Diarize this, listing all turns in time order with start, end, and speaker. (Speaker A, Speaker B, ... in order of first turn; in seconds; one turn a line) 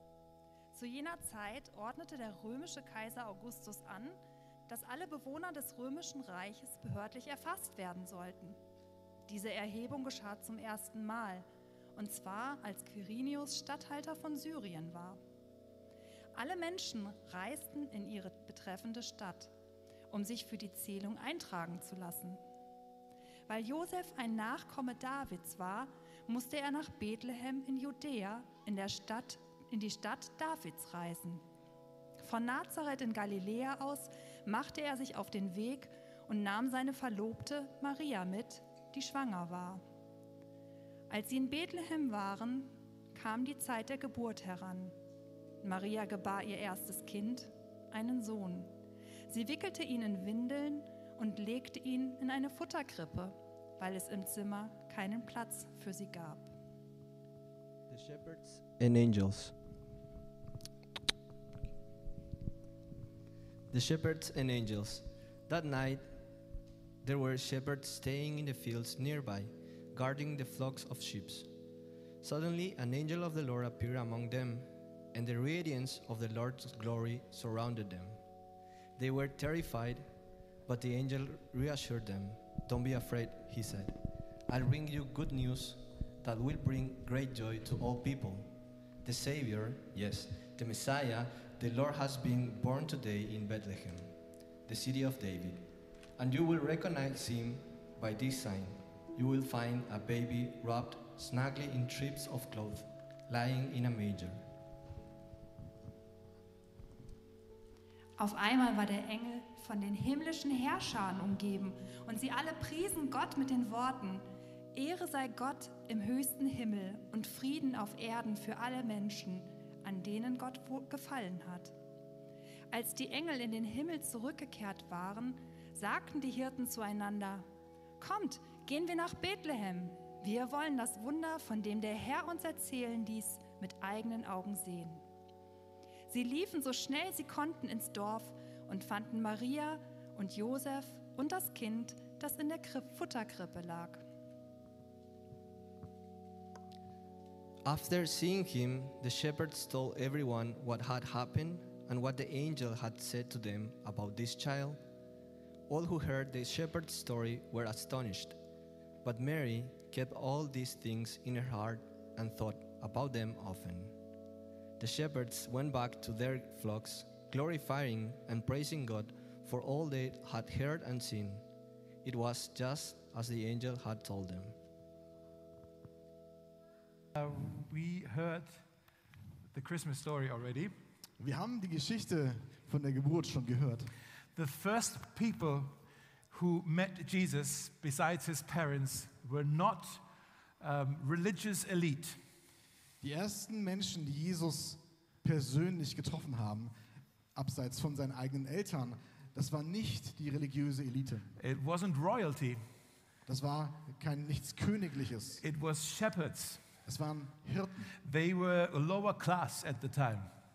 Speaker A: 0.7-8.6
Speaker A: 9.3-15.2
Speaker A: 16.3-19.5
Speaker A: 20.1-22.4
Speaker A: 23.5-31.4
Speaker A: 32.2-39.8
Speaker A: 41.1-44.9
Speaker A: 45.6-48.7
Speaker A: 49.3-56.5
Speaker B: 57.9-59.5
Speaker B: 63.7-66.0
Speaker B: 67.0-71.5
Speaker B: 72.2-78.2
Speaker B: 79.0-80.0
Speaker B: 80.7-84.0
Speaker B: 84.5-88.5
Speaker B: 89.0-94.1
Speaker B: 94.7-104.4
Speaker A: 108.2-121.7
Speaker A: 122.7-127.5
Speaker A: 128.0-135.0
Speaker A: 136.1-144.0
Speaker B: 147.6-154.8
Speaker B: 155.7-158.4
Speaker B: 159.0-163.9
Speaker B: 164.8-171.4
Speaker B: 172.0-174.6
Speaker C: 177.1-178.6
Speaker C: 179.5-180.7
Speaker D: 181.2-183.9
Speaker C: 184.3-185.7
Speaker C: 186.3-190.0
Speaker C: 190.6-192.2
Speaker D: 193.0-196.7
Speaker D: 197.3-201.3
Speaker C: 201.4-202.6
Speaker D: 203.2-205.4
Speaker C: 205.4-206.6
Speaker D: 206.8-207.9
Speaker C: 208.0-210.3